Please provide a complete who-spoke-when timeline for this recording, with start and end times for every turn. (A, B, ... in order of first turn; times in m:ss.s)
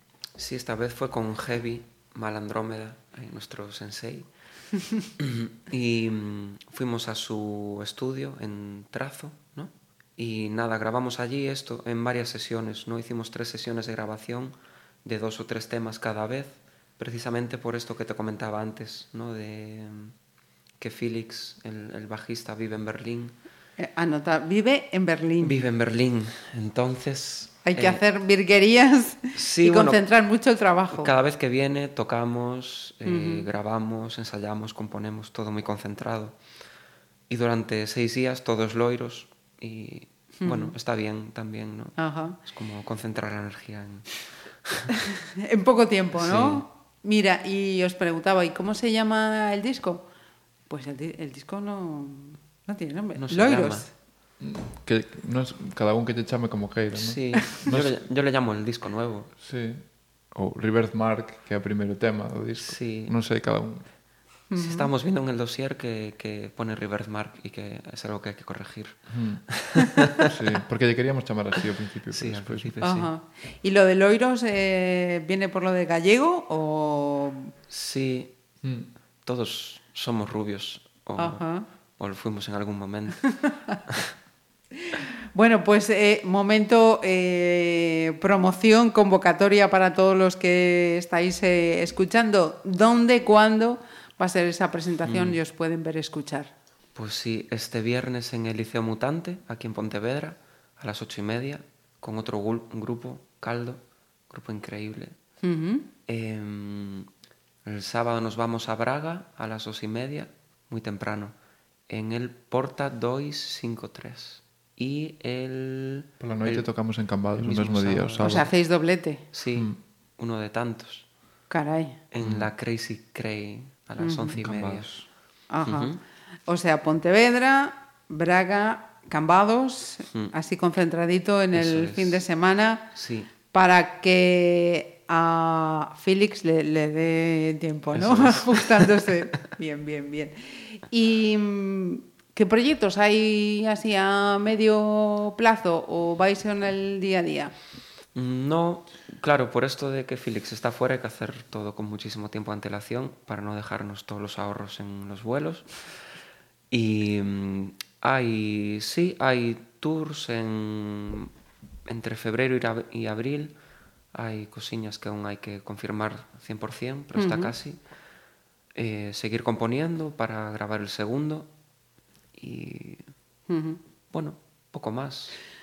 0:00.4-0:04.3 A
0:05.2-0:20.2 A
0:20.8-0:23.4 A
0:23.8-0:25.6 B
0:25.4-0:28.0 A
0:27.6-0:31.1 B
0:29.3-0:30.0 A
0:30.9-0:36.4 A
0:33.1-0:33.5 B
0:37.3-0:44.8 A
0:40.4-0:40.7 B
0:42.0-0:42.4 B
0:45.4-0:50.1 B
0:46.2-0:46.6 A
0:50.7-0:53.9 B
0:53.2-0:53.9 A
0:54.4-0:58.0 C
0:56.9-0:59.3 A
0:59.4-1:04.0 C
1:02.6-1:03.2 A
1:04.5-1:04.9 B
1:04.5-1:10.3 A
1:09.1-1:09.5 C
1:10.2-1:12.8 C
1:12.1-1:13.1 A
1:12.8-1:17.5 B
1:17.7-1:18.6 A
1:18.6-1:18.9 C
1:19.2-1:23.4 A
1:21.2-1:21.7 B
1:23.4-1:23.8 B
1:25.3-1:36.5 B
1:35.0-1:35.4 A
1:37.0-1:45.2 A
1:45.4-1:45.9 B
1:46.1-1:47.1 A
1:47.6-1:51.3 A
1:51.9-1:58.5 A
1:56.2-1:58.5 C
1:58.2-1:59.2 B
1:59.3-2:01.1 A
2:01.5-2:02.0 B
2:02.1-2:05.1 A
2:02.2-2:02.5 C
2:04.0-2:04.4 B
2:04.4-2:05.0 C
2:05.5-2:05.9 B
2:05.6-2:06.0 A
2:06.5-2:12.9 B
2:11.5-2:12.2 A
2:12.9-2:13.3 A
2:13.4-2:27.5 B
2:17.9-2:19.0 A
2:28.2-2:36.0 A
2:36.7-2:41.3 A
2:41.9-2:43.5 A
2:44.1-2:47.8 A
2:47.2-2:47.5 B
2:48.8-2:51.5 A
2:52.4-2:53.0 A
2:53.5-2:53.8 B
2:54.1-2:55.4 A